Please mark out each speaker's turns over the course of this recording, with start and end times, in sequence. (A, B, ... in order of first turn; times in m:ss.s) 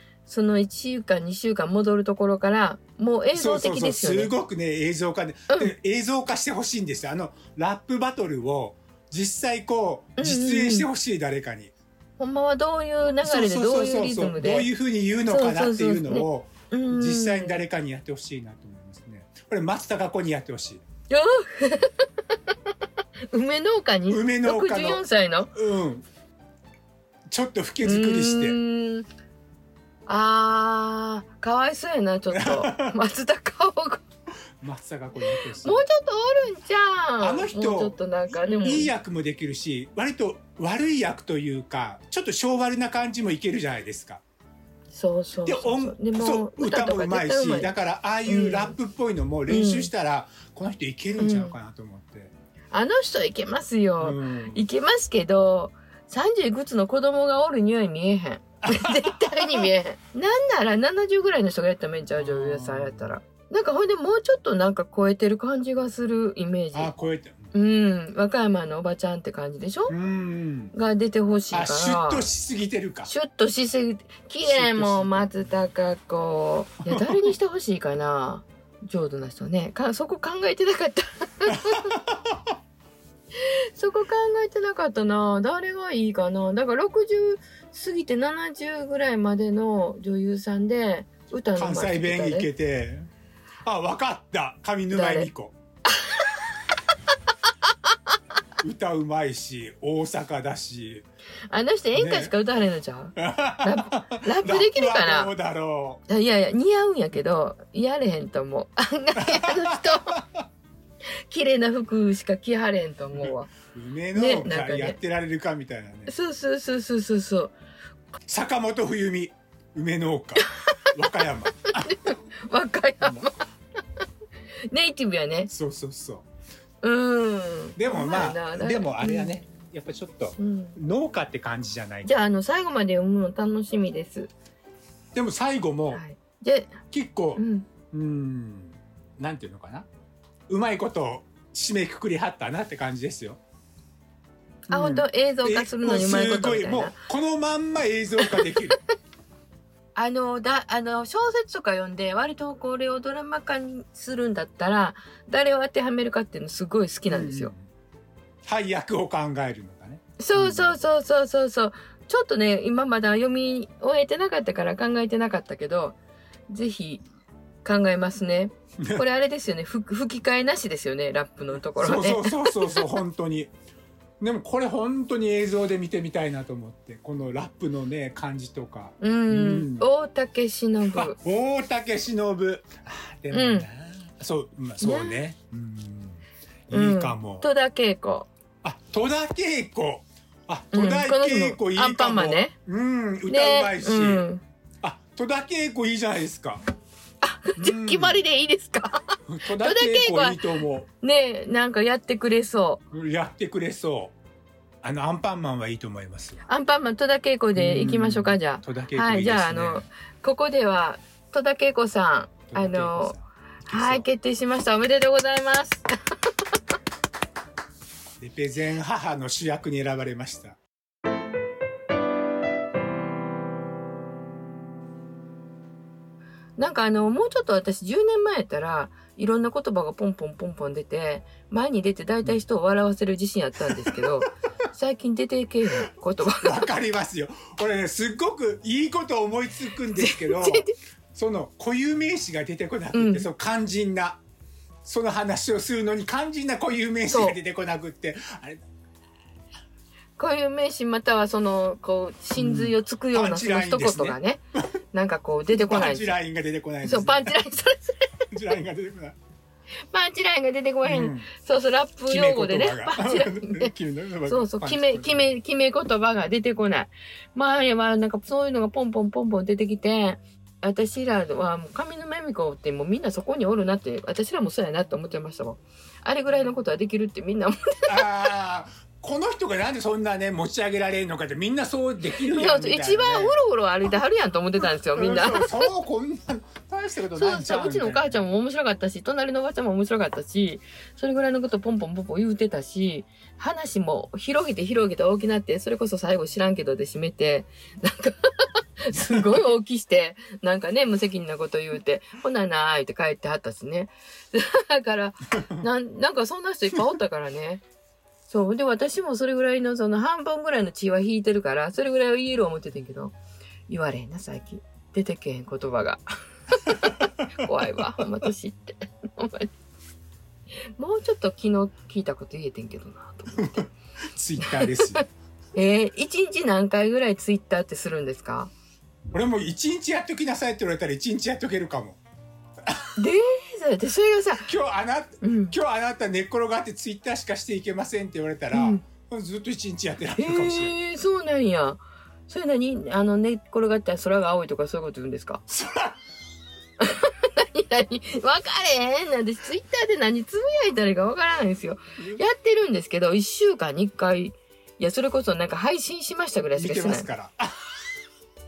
0:00.2-0:04.3 A
0:03.3-0:11.7 B
0:10.2-0:10.9 A
0:12.2-0:14.7 A
0:13.2-0:20.8 B
0:15.2-0:17.6 A
0:21.1-0:22.0 A
0:23.3-0:25.5 A
0:24.1-0:26.0 B
0:27.3-0:28.6 B
0:27.8-0:29.1 A
0:30.1-0:34.0 A
0:32.3-0:33.0 B
0:34.6-0:35.8 B
0:35.6-0:38.9 A
0:37.2-0:44.2 B
0:44.9-0:47.7 A
0:45.4-0:52.3 B
0:48.2-0:48.8 A
0:49.5-0:49.9 A
0:51.1-0:51.5 A
0:52.7-1:06.9 A
0:54.0-0:54.6 B
0:58.6-0:59.7 B
1:02.1-1:03.1 B
1:06.7-1:07.5 B
1:07.5-1:09.9 A
1:09.9-1:10.7 B
1:10.7-1:12.2 A
1:11.5-1:13.1 B
1:13.1-1:21.9 A
1:14.4-1:15.4 B
1:16.9-1:17.3 B
1:21.5-1:22.4 B
1:23.3-1:32.5 A
1:31.6-1:33.1 B
1:33.6-1:35.5 B
1:34.9-1:35.3 A
1:35.9-1:36.5 A
1:38.6-1:41.0 B
1:41.5-1:45.3 A
1:41.9-1:42.3 B
1:43.2-1:46.0 B
1:46.1-1:50.2 A
1:49.2-1:50.4 B
1:51.3-1:53.5 A
1:53.2-1:56.1 B
1:54.1-1:55.0 A
1:56.1-1:57.5 A
1:58.3-2:01.9 B
2:00.4-2:00.7 A
2:01.7-2:03.4 A
2:03.0-2:03.3 B
2:04.7-2:05.5 A
2:05.5-2:06.2 B
2:06.8-2:09.3 A
2:07.8-2:12.1 B
2:10.4-2:10.8 A
2:12.0-2:14.3 A
2:15.1-2:16.0 B
2:15.9-2:16.8 A
2:16.9-2:19.9 B
2:17.4-2:17.7 A
2:20.5-2:23.4 B
2:24.7-2:27.0 A
2:24.7-2:28.8 B
2:28.2-2:28.8 A
2:29.9-2:37.5 A
2:37.1-2:37.6 B
2:38.4-2:40.8 B
2:40.2-2:46.0 A
2:46.5-2:47.0 A
2:47.6-2:52.9 A
2:48.8-2:49.0 B
2:51.7-2:53.5 B
2:54.2-2:59.8 B
2:59.0-3:01.2 A
3:00.9-3:07.5 B
3:03.3-3:03.7 A
3:04.8-3:05.2 A
3:06.7-3:08.3 A
3:08.6-3:14.2 B
3:10.7-3:12.5 A
3:13.3-3:14.4 A
3:14.8-3:16.6 B
3:17.2-3:20.4 A
3:17.6-3:18.2 B
3:19.3-3:20.9 B
3:21.0-3:22.8 A
3:22.9-3:24.2 B
3:24.8-3:26.4 B
3:26.5-3:35.9 A
3:27.5-3:29.8 B
3:32.5-3:34.0 B
3:38.2-3:40.6 B
3:46.6-3:56.6 A
3:53.7-3:54.0 B
3:55.8-4:04.2 B
3:59.9-4:00.7 A
4:02.9-4:03.3 A
4:04.8-4:08.6 B
4:07.1-4:07.4 A
4:10.2-4:14.4 A
4:12.3-4:14.2 B
4:14.9-4:16.2 A
4:15.5-4:17.4 B
4:16.8-4:18.2 A
4:18.3-4:19.2 B
4:19.9-4:23.7 A
4:20.8-4:21.3 B
4:22.1-4:25.3 B
4:24.2-4:38.1 A
4:37.9-4:43.4 B
4:42.3-4:45.7 A
4:44.6-4:48.2 B
4:47.2-5:07.6 A
5:08.3-5:13.2 A
5:13.7-5:19.5 A
5:20.8-5:23.7 A
5:24.2-5:25.0 B
5:24.4-5:25.0 A
5:25.5-5:28.5 A
5:29.1-5:32.0 B
5:33.0-5:34.5 A
5:34.4-5:40.8 B
5:35.2-5:35.6 A
5:38.5-5:38.8 A
5:40.2-5:45.4 A
5:45.5-5:46.0 B
5:46.8-5:57.1 A
5:52.0-5:52.2 B
5:56.5-5:57.6 B